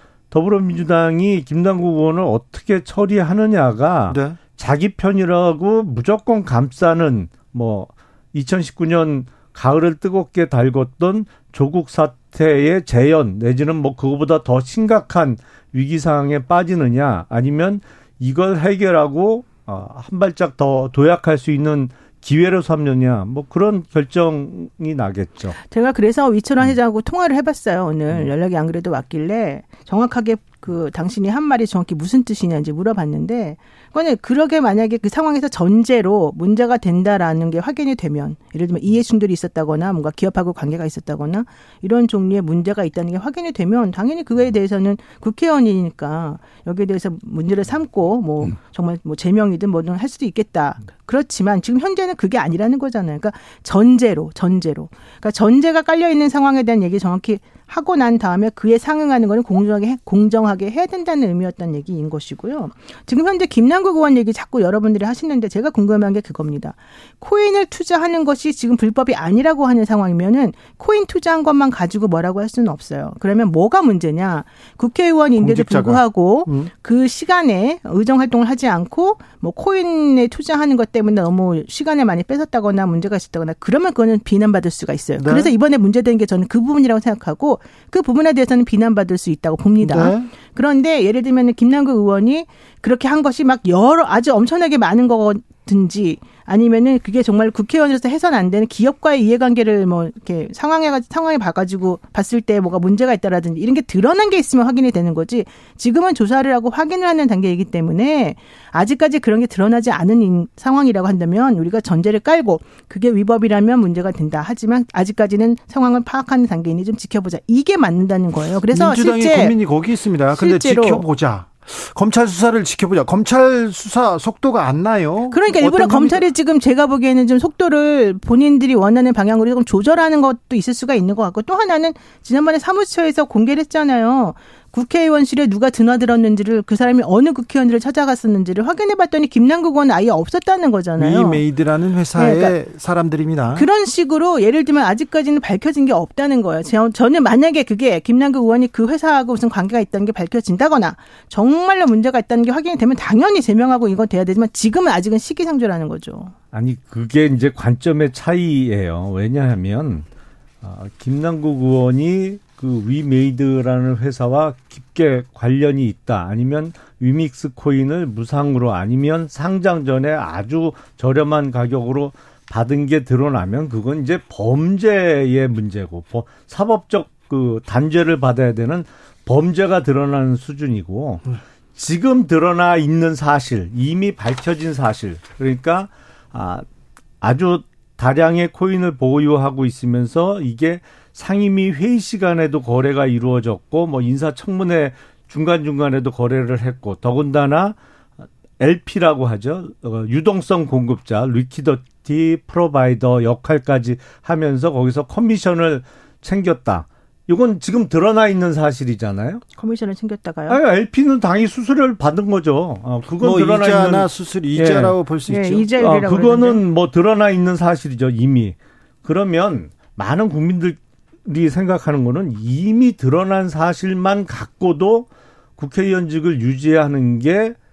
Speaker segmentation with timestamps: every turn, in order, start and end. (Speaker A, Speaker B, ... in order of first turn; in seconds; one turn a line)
Speaker A: 0.3-25.6
Speaker B: 4.1-4.4
Speaker C: 25.7-119.5
Speaker B: 75.4-76.7
Speaker B: 85.2-85.5
Speaker B: 89.8-90.3
Speaker B: 118.7-126.2
Speaker C: 120.4-121.0
Speaker C: 125.3-141.4
Speaker B: 141.0-143.7
Speaker C: 142.2-142.5
Speaker C: 143.6-156.3
Speaker A: 156.5-160.1
Speaker A: 160.6-186.7
Speaker A: 187.2-197.8
Speaker A: 198.6-209.4
Speaker C: 209.6-210.6
Speaker A: 210.5-215.0
Speaker B: 213.2-215.7
Speaker C: 215.3-216.6
Speaker A: 215.8-227.6